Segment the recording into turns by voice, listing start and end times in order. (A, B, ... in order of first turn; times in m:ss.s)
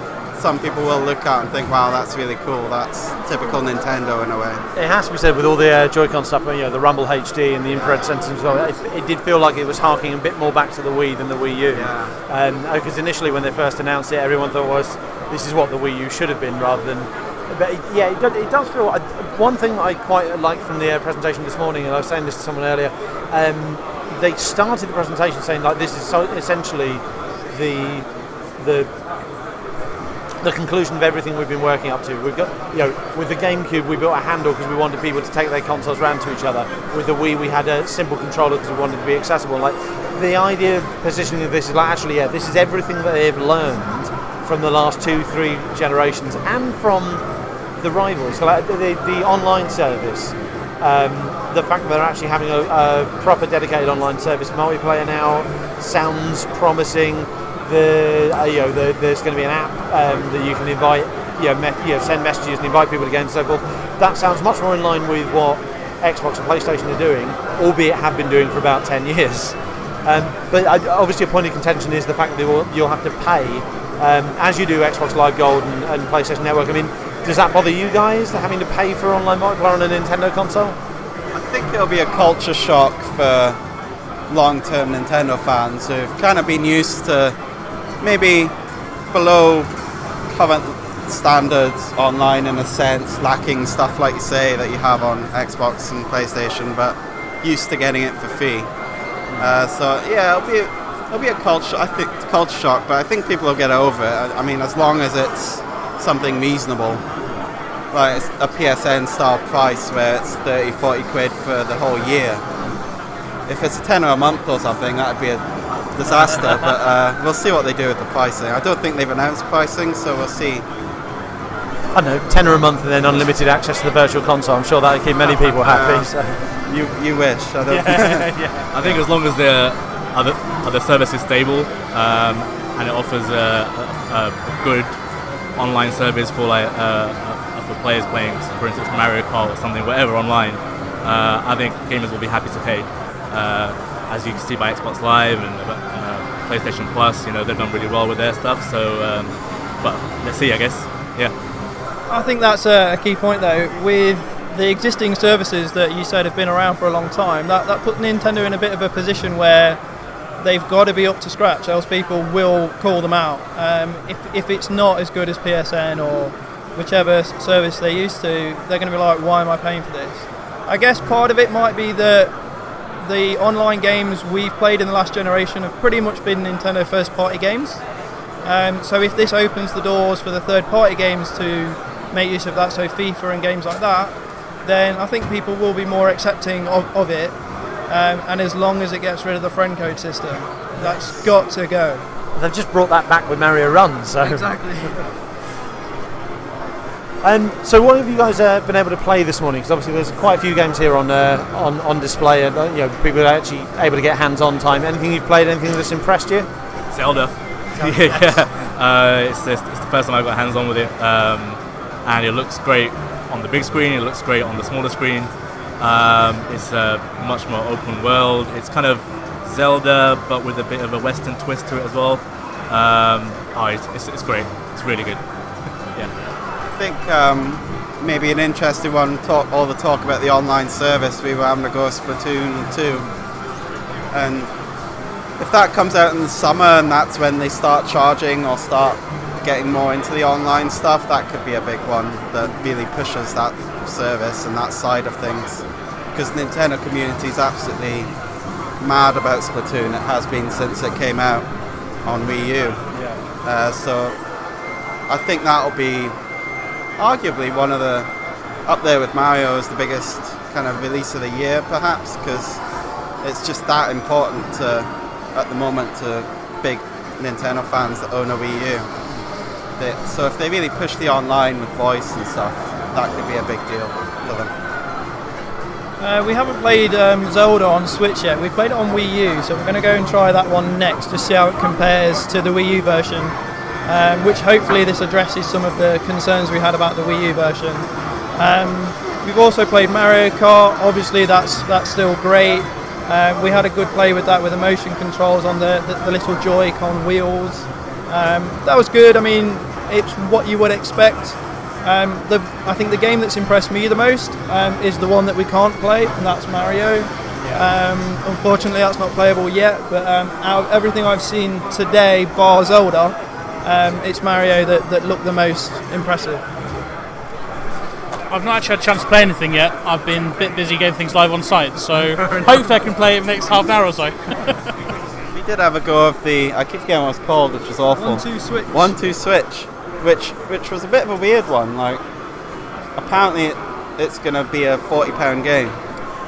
0:00.4-0:04.6 A
0:04.8-0:28.9 B
0:11.7-0:12.2 A
0:30.4-0:47.2 B
0:47.8-1:20.8 B
1:21.3-1:23.6 A
1:24.3-1:27.4 A
1:28.0-1:28.5 A
1:29.1-1:29.7 A
1:30.3-1:38.7 A
1:39.4-1:47.0 A
1:47.9-1:52.4 A
1:53.5-2:00.6 A
2:01.9-2:06.4 B
2:05.2-2:06.1 A
2:06.7-2:08.5 A
2:07.7-2:09.0 B
2:08.7-2:14.9 C
2:15.6-2:31.3 C
2:32.1-2:39.8 D
2:40.4-2:52.4 D
2:53.0-2:57.8 D
2:58.4-3:07.4 D
3:07.9-3:12.0 D
3:12.4-3:14.8 B
3:14.2-3:15.0 D
3:17.2-3:26.5 B
3:26.9-3:45.2 C
3:27.8-3:28.4 D
3:46.8-3:53.1 A
3:54.1-3:54.5 A
3:55.4-4:05.6 A
4:06.1-4:08.1 A
4:08.8-4:11.4 A
4:12.0-4:12.8 A
4:12.9-4:13.2 B
4:13.4-4:14.2 A
4:15.1-4:16.2 A
4:17.0-4:18.1 A
4:18.7-4:22.6 A
4:23.2-4:28.9 A
4:29.8-4:34.5 A
4:36.0-5:16.4 D
5:18.3-5:24.6 E
5:25.3-5:32.0 A
5:28.0-5:28.9 D
5:33.0-5:35.8 A